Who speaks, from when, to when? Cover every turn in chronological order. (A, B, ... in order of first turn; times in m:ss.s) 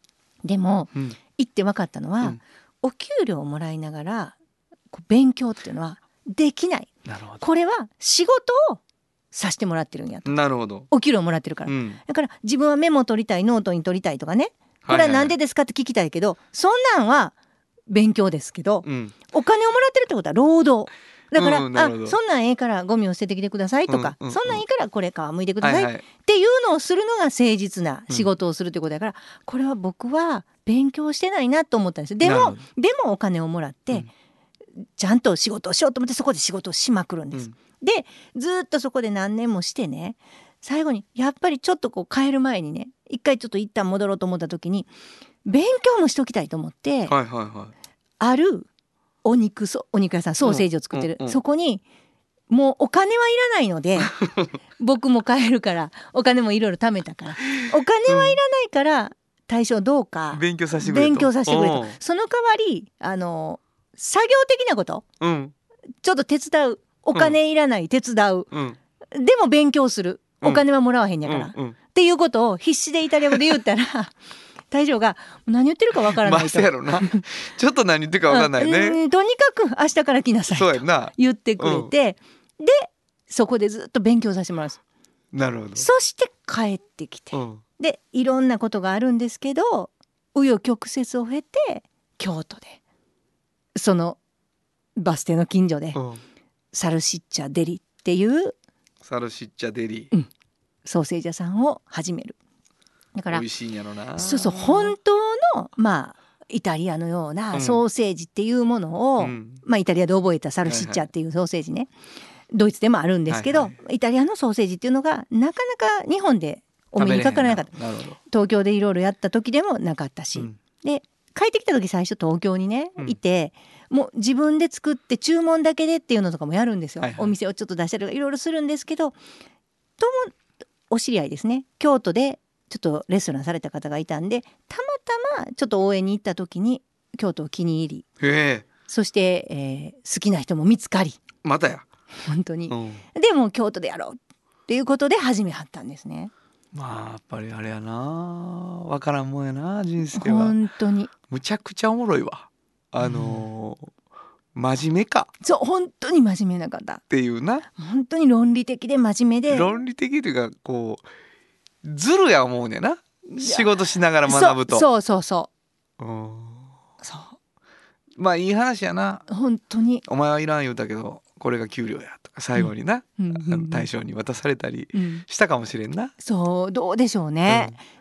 0:00.4-0:04.4 A
0:04.9-0:08.8 A
0:07.0-0:07.4 B
0:09.3-0:10.4 A
0:10.2-0:10.9 B
0:10.9-0:17.3 A
0:11.6-0:12.0 B
0:14.8-0:15.3 B
0:17.9-0:34.1 A
0:18.8-0:19.1 B
0:21.3-0:22.2 B
0:23.9-0:24.6 B
0:25.6-0:26.0 B
0:32.2-0:32.6 B
0:35.0-0:44.9 A
0:45.4-0:47.1 A
0:47.1-0:47.7 B
0:48.2-0:48.7 A
0:49.2-0:51.8 A
0:50.4-0:51.4 B
0:52.5-0:54.2 A
0:54.0-0:54.5 B
0:54.8-1:05.0 A
0:58.1-0:58.4 B
1:00.3-1:02.0 B
1:05.2-1:05.5 B
1:06.0-1:08.5 A
1:08.5-1:08.8 B
1:09.1-1:14.1 A
1:11.2-1:11.8 B
1:14.7-1:17.2 A
1:16.1-1:19.0 B
1:18.3-1:24.8 A
1:20.5-1:21.9 B
1:25.3-1:25.9 B
1:25.8-1:32.8 A
1:27.3-1:27.6 B
1:33.7-1:34.2 A
1:35.0-1:36.0 A
1:35.9-1:36.2 B
1:36.7-1:38.5 A
1:39.0-1:40.1 B
1:40.8-1:42.4 A
1:43.1-1:43.4 A
1:43.3-1:44.9 B
1:44.2-1:51.9 A
1:47.5-1:47.8 B
1:49.2-1:49.6 B
1:50.6-1:51.0 B
1:52.5-1:57.7 A
1:53.3-1:53.7 B
1:57.0-1:58.2 B
1:58.3-2:09.2 A
2:07.0-2:07.3 B
2:10.0-2:10.3 A
2:10.9-2:18.0 A
2:18.2-2:18.6 B
2:18.9-2:21.2 A
2:21.4-2:21.8 B
2:22.2-2:26.3 A
2:22.7-2:23.0 B
2:26.7-2:30.6 B
2:30.1-2:31.1 A
2:31.3-2:33.9 B
2:33.0-2:33.4 A
2:34.5-2:35.3 B
2:35.4-2:37.0 A
2:37.1-2:37.6 B
2:37.7-2:39.7 A
2:39.5-2:41.0 B
2:41.8-2:44.8 B
2:43.4-2:43.7 A
2:44.2-2:45.5 A
2:46.0-2:46.7 B
2:47.0-2:47.3 A
2:48.2-2:49.3 B
2:49.3-2:50.0 A
2:50.0-2:56.1 B
2:52.6-2:53.8 A
2:54.9-2:55.2 A
2:56.2-2:57.8 A
2:57.5-2:57.8 B